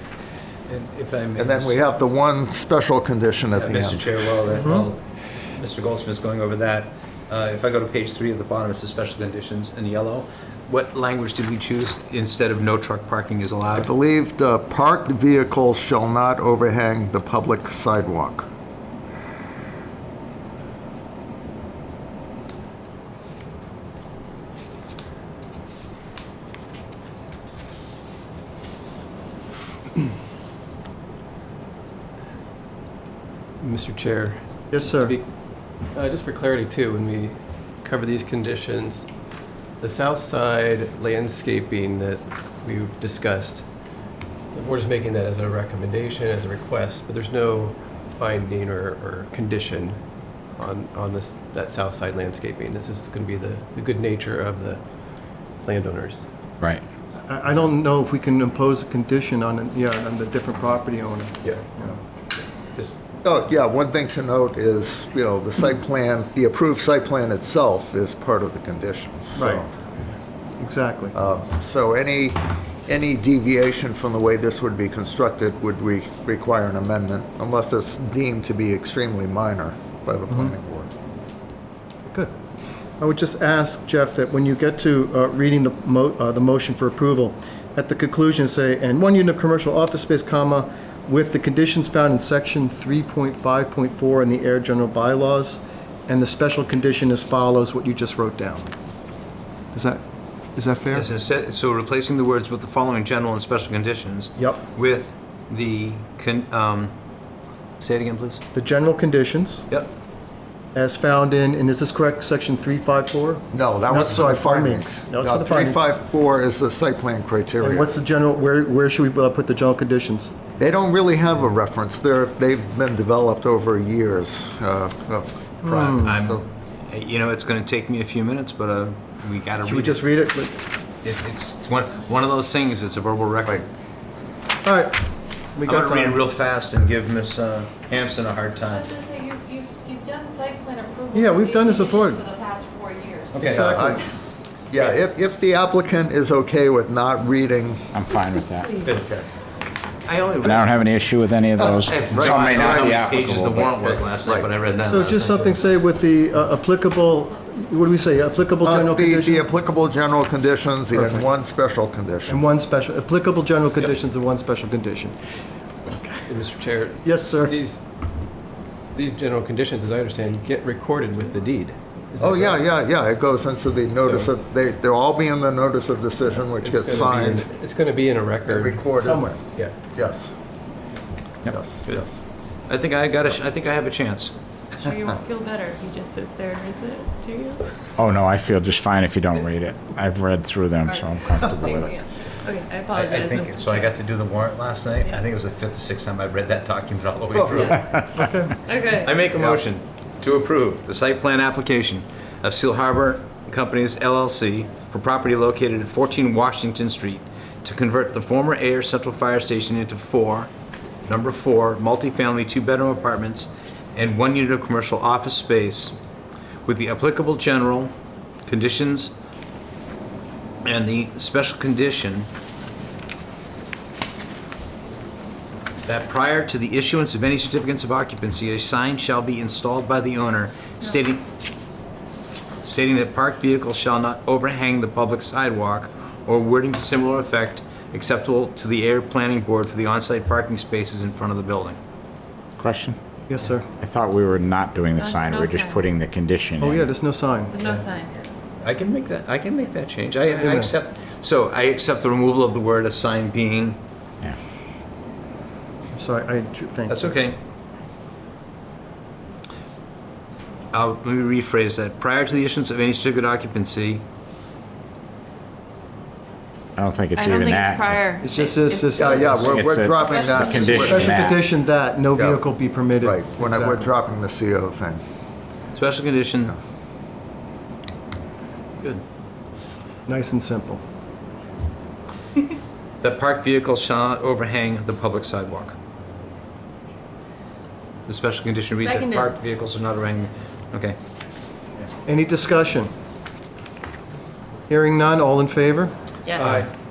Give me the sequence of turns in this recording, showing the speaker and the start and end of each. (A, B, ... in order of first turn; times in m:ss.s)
0:00.7-0:01.8 A
0:01.4-0:04.1 B
0:03.5-0:05.0 A
0:04.5-0:04.9 C
0:05.6-0:13.9 A
0:13.7-0:18.4 B
0:33.6-0:39.1 D
0:34.7-0:35.2 C
0:39.8-0:43.7 D
0:44.5-0:56.3 D
0:57.3-1:02.0 C
1:01.4-1:02.0 D
1:02.6-1:02.9 D
1:03.2-1:09.7 B
1:09.4-1:09.6 C
1:10.6-1:11.1 C
1:11.1-1:20.9 B
1:20.3-1:20.5 C
1:22.1-1:22.3 C
1:23.0-1:38.7 C
1:39.7-1:41.1 C
1:40.9-1:46.9 A
1:47.8-1:48.4 A
1:48.5-1:49.6 C
1:50.7-1:55.8 C
1:53.5-1:57.9 B
1:57.6-2:00.3 C
2:00.6-2:06.4 B
2:05.6-2:06.2 C
2:06.0-2:10.1 A
2:09.6-2:10.6 C
2:11.0-2:13.7 A
2:14.6-2:16.2 C
2:15.6-2:19.0 A
2:18.7-2:24.1 E
2:21.1-2:22.2 C
2:23.3-2:23.8 A
2:23.4-2:24.0 C
2:23.5-2:24.0 B
2:24.7-2:27.9 B
2:24.7-2:25.0 A
2:27.9-2:28.8 F
2:28.6-2:28.9 E
2:28.8-2:29.3 B
2:30.0-2:30.8 A
2:30.4-2:33.7 F
2:31.6-2:33.1 B
2:31.8-2:35.6 A
2:33.6-2:34.5 B
2:34.8-2:39.4 C
2:38.6-2:42.4 B
2:40.9-2:41.2 C
2:42.3-2:45.2 C
2:45.9-2:46.2 C
2:46.3-2:47.8 D
2:47.0-2:47.6 C
2:48.9-2:52.7 D
2:52.2-2:57.5 B
2:54.0-2:54.3 D
2:56.3-2:59.0 D
2:58.4-2:59.4 B
2:59.0-2:59.4 C
2:59.5-2:59.8 D
2:59.9-3:00.4 B
3:01.5-3:02.2 B
3:02.7-3:04.4 A
3:04.8-3:07.6 E
3:08.0-3:11.9 F
3:10.8-3:13.9 E
3:11.4-3:11.9 B
3:12.9-3:18.1 A
3:17.7-3:18.0 F
3:18.1-3:18.6 C
3:18.6-3:19.2 E
3:18.8-3:30.5 A
3:31.0-3:36.0 A
3:36.6-3:37.9 A
3:38.4-3:39.2 A
3:40.6-3:42.3 A
3:45.8-3:51.3 A
3:52.6-4:01.8 A
4:02.6-4:03.0 F
4:03.3-4:03.7 C
4:03.8-4:06.9 F
4:05.0-4:05.8 E
4:06.6-4:07.7 C
4:07.5-4:08.1 E
4:08.6-4:13.8 A
4:10.4-4:10.7 C
4:15.9-4:17.1 C
4:16.9-4:17.4 A
4:20.7-4:24.0 A
4:26.8-4:28.1 F
4:27.2-4:31.1 E
4:28.2-4:29.6 C
4:29.0-4:31.2 B
4:29.4-4:31.4 F
4:30.5-4:33.9 C
4:32.1-4:32.4 B
4:33.0-4:35.0 B
4:35.7-4:36.6 A
4:40.0-4:40.8 C
4:43.0-4:45.8 A
4:48.1-4:51.0 A
4:48.8-4:49.3 E
4:52.0-4:52.9 C
4:54.7-4:56.6 C
4:56.2-4:56.6 E
4:56.3-4:56.7 A